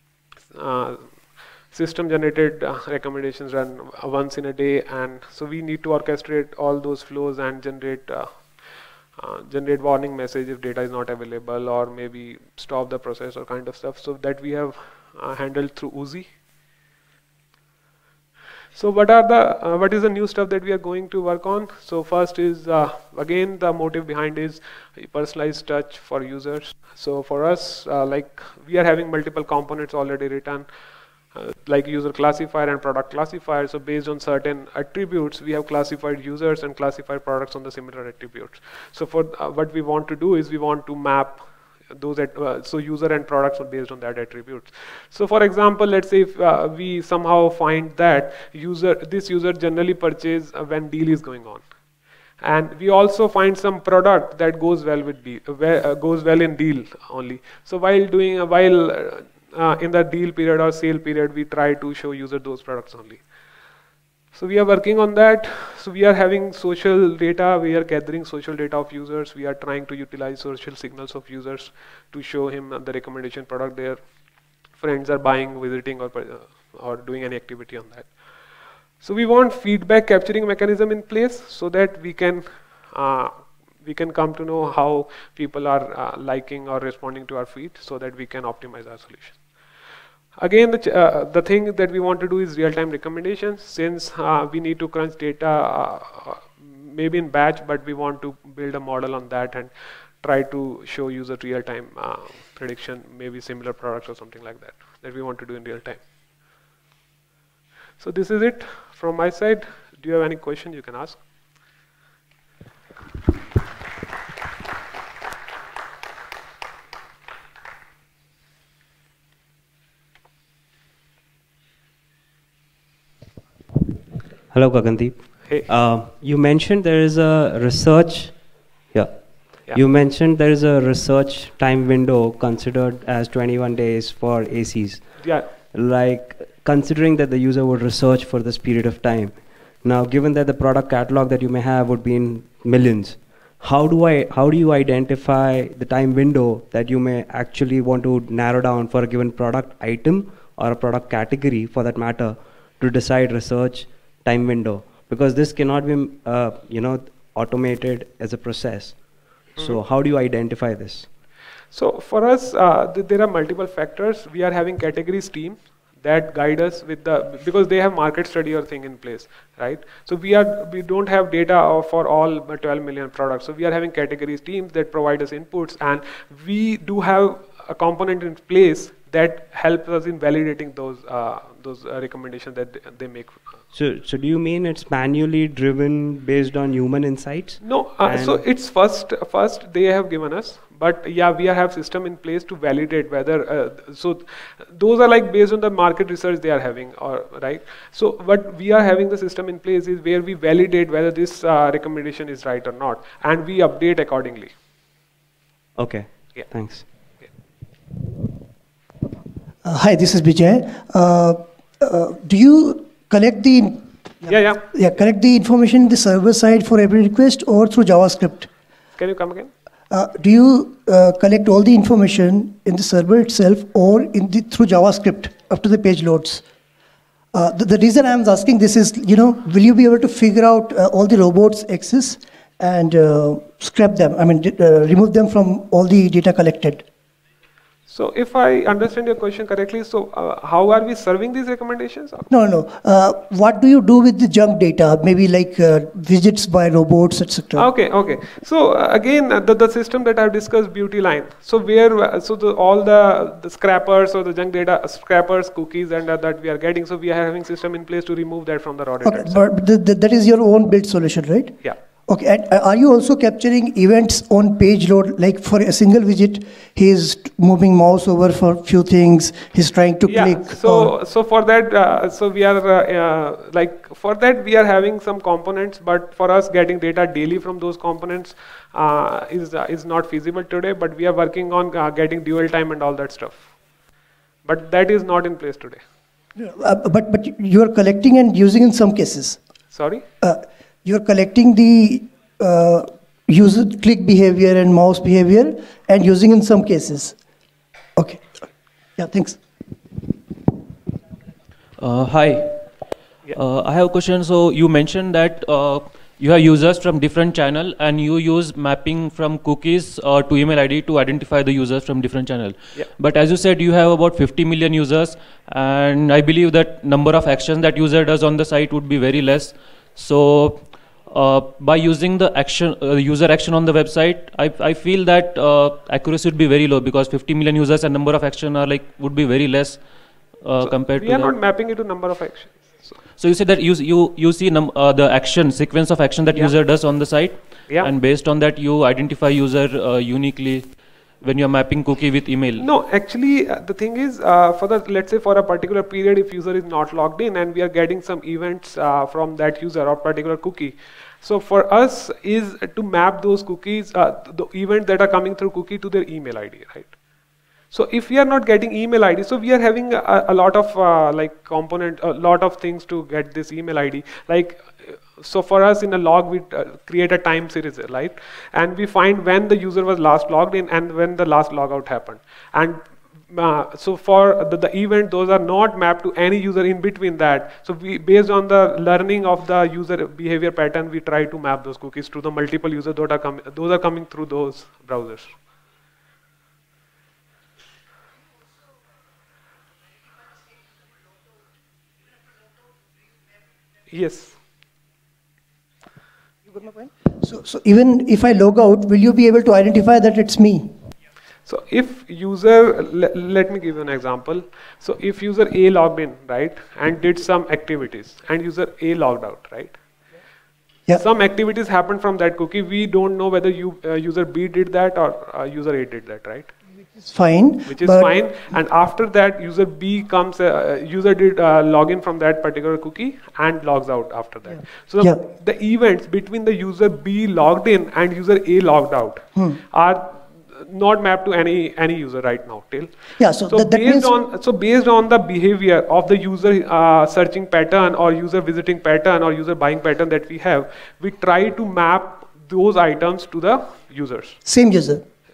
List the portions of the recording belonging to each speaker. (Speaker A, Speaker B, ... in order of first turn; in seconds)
Speaker A: 0.5-8.6, 9.2-16.3, 18.8-30.7, 31.3-51.6, 52.4-63.2, 64.3-74.0, 74.8-78.1, 79.0-89.4, 90.4-106.0, 108.0-111.2, 135.2-135.5, 161.7-183.4, 187.6-204.5, 214.3-214.7, 219.0-219.5, 237.9-242.3, 247.6-259.4, 270.1-283.5, 284.4-285.8, 289.7-290.0, 330.6-332.9, 342.6-356.9, 357.7-385.4, 393.9-394.4, 401.5-409.8, 410.9-416.5, 417.7-432.9, 433.4-444.4
Speaker B: 124.5-128.4, 128.9-159.0, 159.6-161.1, 183.7-188.4, 205.8-206.9
Speaker C: 209.6-218.5, 219.9-226.4, 227.3-236.8, 242.3-247.7, 259.0-270.9, 286.4-289.4, 290.2-297.1, 298.0-298.4, 299.0-299.4, 396.5-400.7, 417.0-418.2, 433.2-434.1, 444.4-445.0
Speaker D: 301.8-329.8, 330.4-331.4, 333.2-342.7